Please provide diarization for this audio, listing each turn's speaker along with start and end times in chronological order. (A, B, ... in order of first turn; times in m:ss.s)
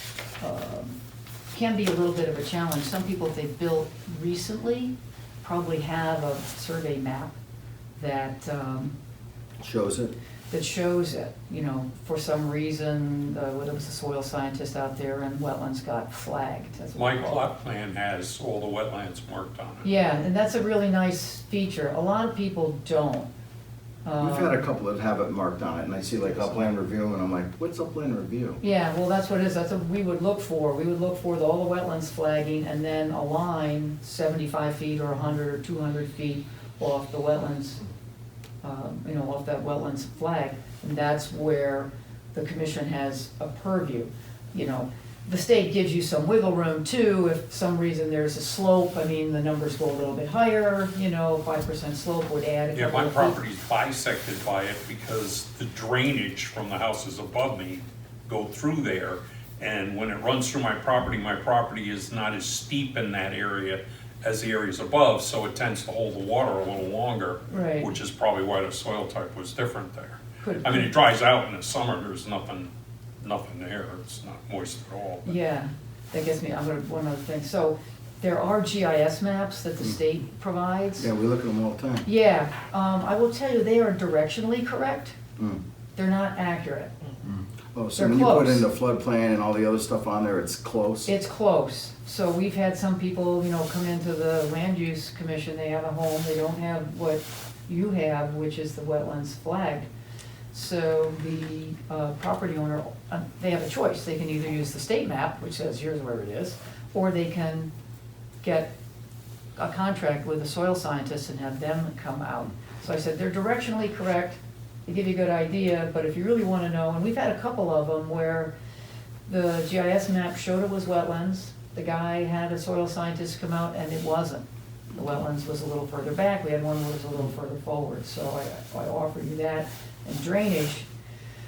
0:00.4-0:01.0 A
0:01.5-0:07.3 A
0:08.0-0:08.9 A
0:09.6-0:10.1 B
0:10.5-0:17.5 A
0:16.9-0:19.9 C
0:19.8-0:23.3 A
0:24.0-0:24.6 A
0:24.2-0:28.6 B
0:28.6-0:37.8 A
0:38.6-0:53.4 A
0:52.7-1:15.3 C
1:07.5-1:07.9 A
1:10.4-1:10.9 A
1:15.2-1:21.1 A
1:21.0-1:22.0 B
1:22.0-1:25.2 A
1:26.0-1:26.9 A
1:27.2-1:31.1 B
1:27.9-1:28.6 A
1:31.0-1:39.8 A
1:40.5-1:47.7 A
1:48.4-1:48.7 A
1:49.6-1:58.5 A
1:59.3-2:10.9 A